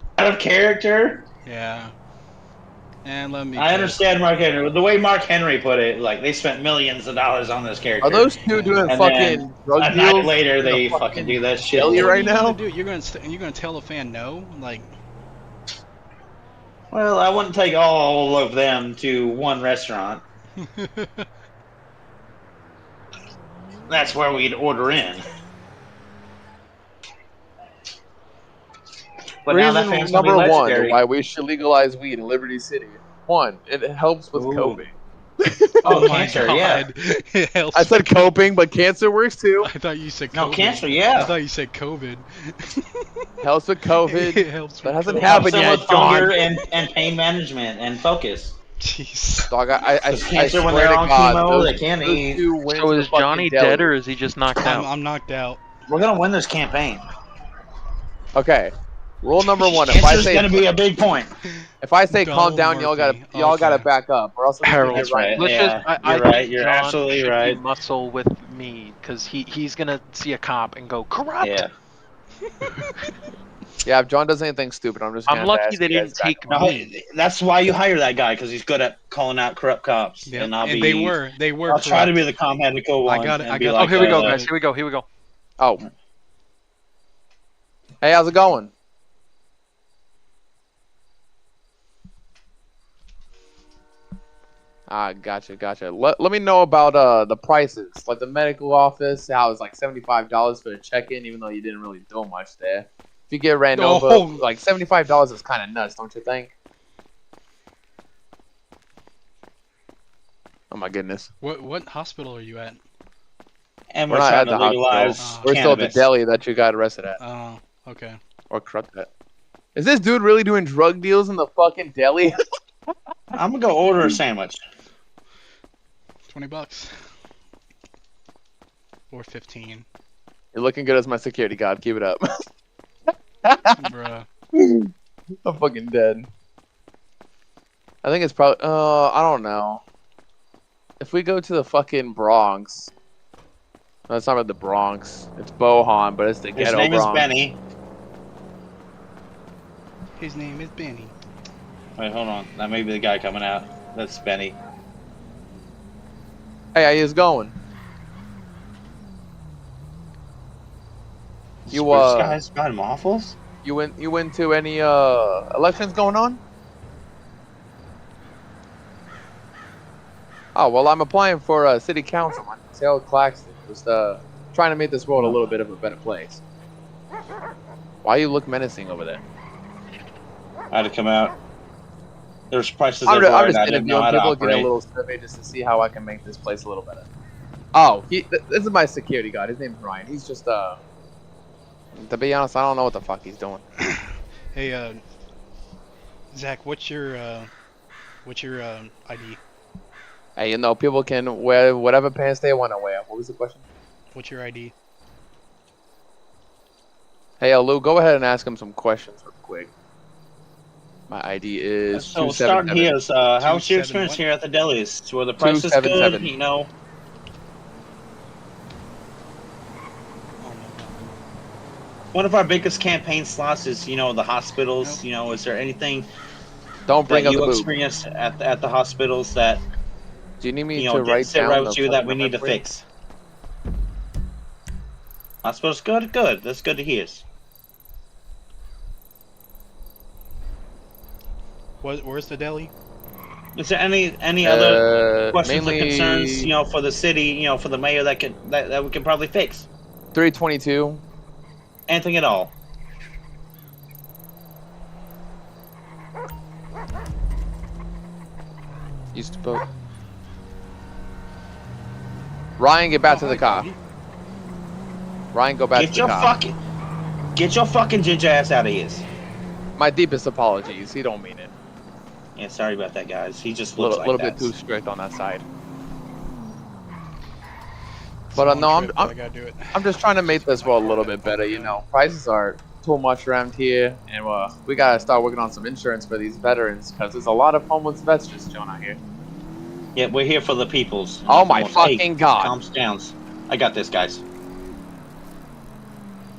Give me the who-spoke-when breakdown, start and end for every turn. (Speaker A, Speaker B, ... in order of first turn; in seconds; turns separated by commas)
Speaker A: 0.2-1.2, Speaker B: 1.4-1.9, Speaker B: 3.0-4.0, Speaker A: 3.5-8.3, Speaker C: 8.0-12.6, Speaker B: 8.4-8.9, Speaker A: 8.8-12.2, Speaker B: 11.8-14.9, Speaker A: 16.9-20.2, Speaker B: 20.6-21.2, Speaker A: 23.9-25.2, Speaker A: 29.4-31.0, Speaker C: 29.5-34.9, Speaker A: 34.3-34.8, Speaker C: 35.4-36.4, Speaker B: 35.8-38.1, Speaker A: 35.8-36.9, Speaker C: 37.7-39.7, Speaker B: 39.6-42.9, Speaker A: 40.3-41.3, Speaker C: 43.4-46.3, Speaker B: 44.0-46.5, Speaker A: 45.2-48.5, Speaker D: 45.9-46.1, Speaker B: 48.8-49.5, Speaker C: 49.5-53.9, Speaker A: 50.0-52.5, Speaker D: 52.7-54.9, Speaker B: 54.6-55.6, Speaker A: 55.9-57.0, Speaker C: 58.3-60.7, Speaker A: 59.6-61.3, Speaker C: 61.8-65.5, Speaker B: 62.1-63.9, Speaker D: 64.6-71.7, Speaker A: 64.9-67.6, Speaker A: 71.4-71.7, Speaker C: 73.8-76.7, Speaker D: 75.3-76.9, Speaker A: 76.5-81.1, Speaker B: 80.3-82.2, Speaker A: 81.7-84.4, Speaker B: 83.0-84.5, Speaker D: 83.8-85.0, Speaker C: 88.0-88.7, Speaker C: 94.9-106.5, Speaker B: 103.7-104.4, Speaker C: 110.7-111.3, Speaker B: 111.4-112.8, Speaker A: 113.9-116.1, Speaker C: 114.1-117.2, Speaker B: 115.2-115.6, Speaker B: 117.2-118.2, Speaker C: 118.5-119.1, Speaker C: 119.7-122.3, Speaker A: 123.3-124.6, Speaker B: 126.3-126.9, Speaker B: 129.1-129.8, Speaker C: 130.5-132.2, Speaker C: 133.4-133.8, Speaker B: 133.8-134.3, Speaker C: 134.5-134.9, Speaker C: 135.4-136.3, Speaker C: 138.0-139.8, Speaker C: 141.0-142.9, Speaker C: 144.1-147.3, Speaker A: 146.5-147.6, Speaker B: 150.2-151.1, Speaker A: 152.0-154.6, Speaker C: 156.7-157.5, Speaker A: 161.7-163.3, Speaker C: 161.7-162.4, Speaker C: 163.6-166.4, Speaker C: 170.5-176.4, Speaker C: 178.0-179.2, Speaker A: 180.7-181.3, Speaker A: 182.5-184.7, Speaker C: 183.0-187.1, Speaker C: 187.7-190.8, Speaker C: 191.9-193.6, Speaker B: 193.9-195.0, Speaker B: 196.3-197.5, Speaker B: 198.2-199.4, Speaker C: 200.4-203.6, Speaker B: 204.1-204.7, Speaker C: 207.4-209.7, Speaker C: 211.1-212.9, Speaker A: 211.9-216.7, Speaker B: 213.4-214.2, Speaker C: 215.4-216.3, Speaker B: 220.4-221.1, Speaker A: 222.1-226.1, Speaker C: 226.9-227.7, Speaker A: 227.1-229.6, Speaker C: 230.4-232.6, Speaker A: 230.8-232.8, Speaker A: 235.4-237.2, Speaker B: 241.8-242.7, Speaker A: 243.6-249.7, Speaker C: 244.4-246.5, Speaker C: 250.1-251.0, Speaker A: 251.9-252.5, Speaker C: 259.1-259.6, Speaker C: 262.6-263.7, Speaker B: 263.0-263.8, Speaker C: 265.3-266.3, Speaker A: 265.7-266.6, Speaker A: 267.4-269.0, Speaker C: 269.8-271.5, Speaker A: 272.4-274.5, Speaker C: 273.8-275.4, Speaker B: 278.3-281.8, Speaker C: 278.3-279.1, Speaker C: 279.7-289.0, Speaker A: 289.9-294.2, Speaker C: 291.3-292.5